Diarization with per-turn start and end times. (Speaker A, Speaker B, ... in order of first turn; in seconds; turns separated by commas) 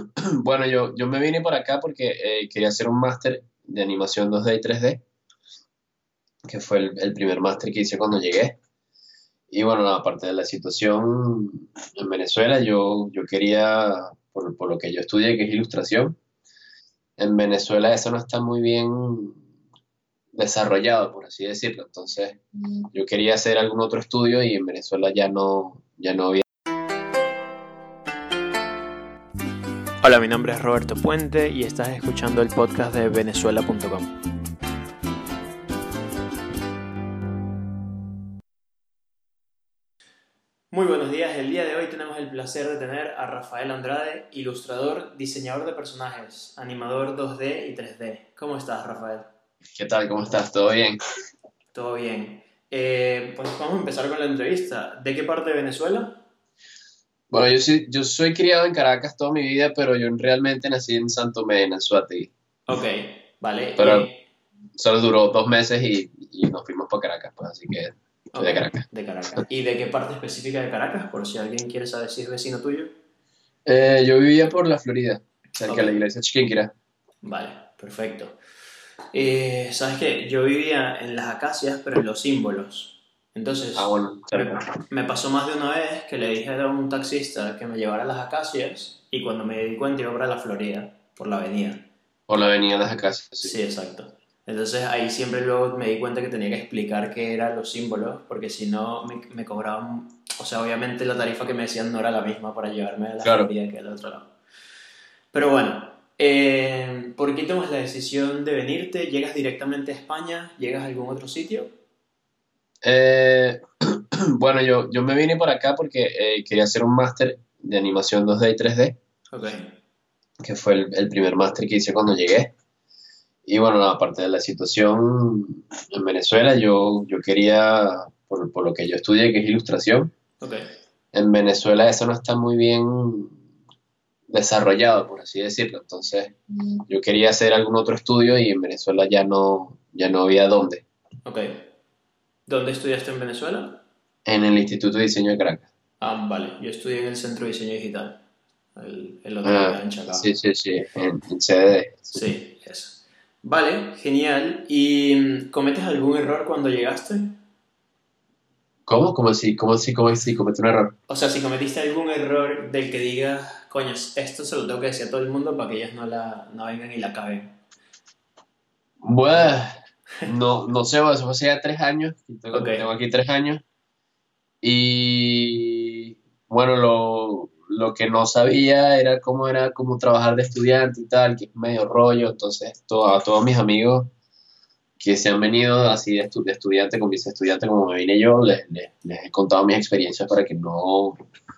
Speaker A: 0.3-5.0, Speaker A: 6.5-8.6, Speaker A: 9.5-16.2, Speaker A: 17.2-19.4, Speaker A: 20.3-26.4, Speaker B: 30.0-34.1, Speaker B: 40.7-49.3, Speaker A: 49.8-51.0, Speaker B: 51.7-56.2, Speaker A: 57.3-62.3, Speaker B: 62.7-64.2, Speaker A: 63.8-64.1, Speaker A: 64.8-68.8, Speaker B: 68.3-73.0, Speaker A: 73.7-76.7, Speaker B: 75.6-76.0, Speaker B: 77.2-78.4, Speaker B: 79.1-91.9, Speaker A: 83.8-84.7, Speaker A: 92.3-93.6, Speaker B: 93.4-104.3, Speaker A: 103.2-103.5, Speaker B: 105.3-111.7, Speaker A: 112.8-119.0, Speaker B: 119.3-119.8, Speaker A: 120.4-122.5, Speaker A: 123.5-130.1, Speaker B: 130.4-130.7, Speaker A: 131.1-133.4, Speaker A: 134.3-136.3, Speaker A: 136.9-140.8, Speaker B: 141.2-141.7, Speaker B: 142.5-143.8, Speaker A: 144.2-145.7, Speaker B: 146.0-148.2, Speaker B: 148.8-150.3, Speaker A: 149.4-152.2, Speaker B: 152.1-157.4, Speaker A: 158.9-160.9, Speaker B: 161.1-167.6, Speaker A: 169.0-173.6, Speaker B: 169.3-169.6, Speaker B: 172.5-172.8, Speaker A: 174.6-184.1, Speaker A: 185.0-191.2